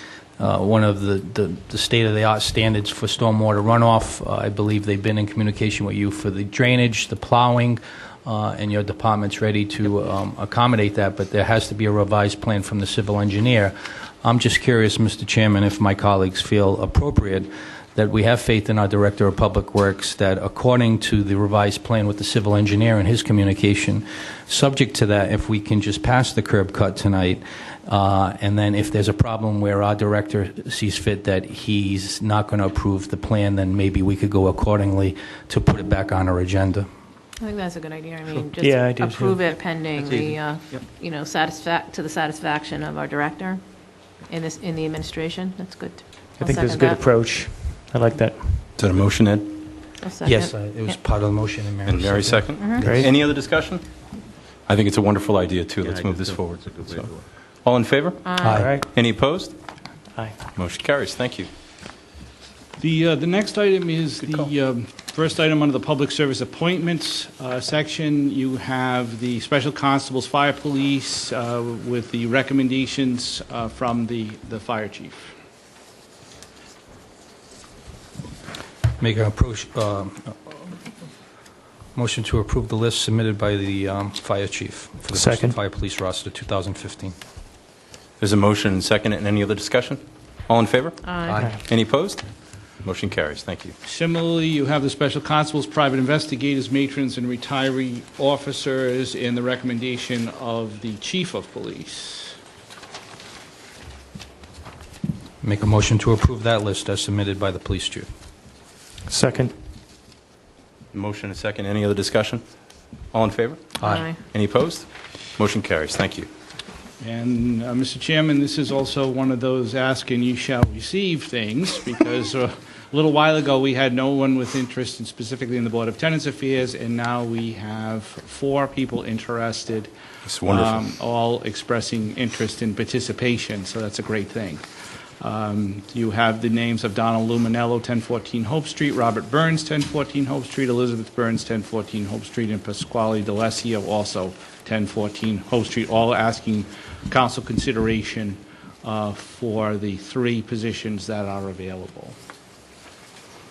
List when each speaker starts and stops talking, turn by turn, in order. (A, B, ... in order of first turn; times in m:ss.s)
0:00.4-0:36.9 A
0:37.4-0:47.0 B
0:38.6-0:39.8 C
0:39.9-0:40.8 D
0:46.4-0:48.7 C
0:48.8-0:49.6 E
0:50.0-0:51.0 B
0:50.2-0:52.8 A
0:51.8-0:53.8 E
0:52.6-0:52.9 B
0:52.8-0:53.1 C
0:54.7-0:57.1 E
0:55.8-0:57.2 D
0:57.6-0:59.5 E
0:58.2-0:58.7 B
0:58.4-0:58.7 A
0:58.4-0:58.9 C
1:00.5-1:01.5 E
1:02.8-1:15.3 F
1:19.0-1:20.4 A
1:21.9-1:27.1 A
1:25.1-1:25.6 C
1:28.2-1:33.7 E
1:31.0-1:31.5 B
1:31.2-1:31.5 A
1:31.3-1:31.6 C
1:33.8-1:42.4 F
1:45.4-1:48.0 A
1:49.1-1:49.5 C
1:50.9-1:52.4 E
1:53.1-1:56.3 E
1:53.8-1:54.2 B
1:57.0-2:14.6 F
2:10.2-2:10.9 E
2:15.2-2:32.2 F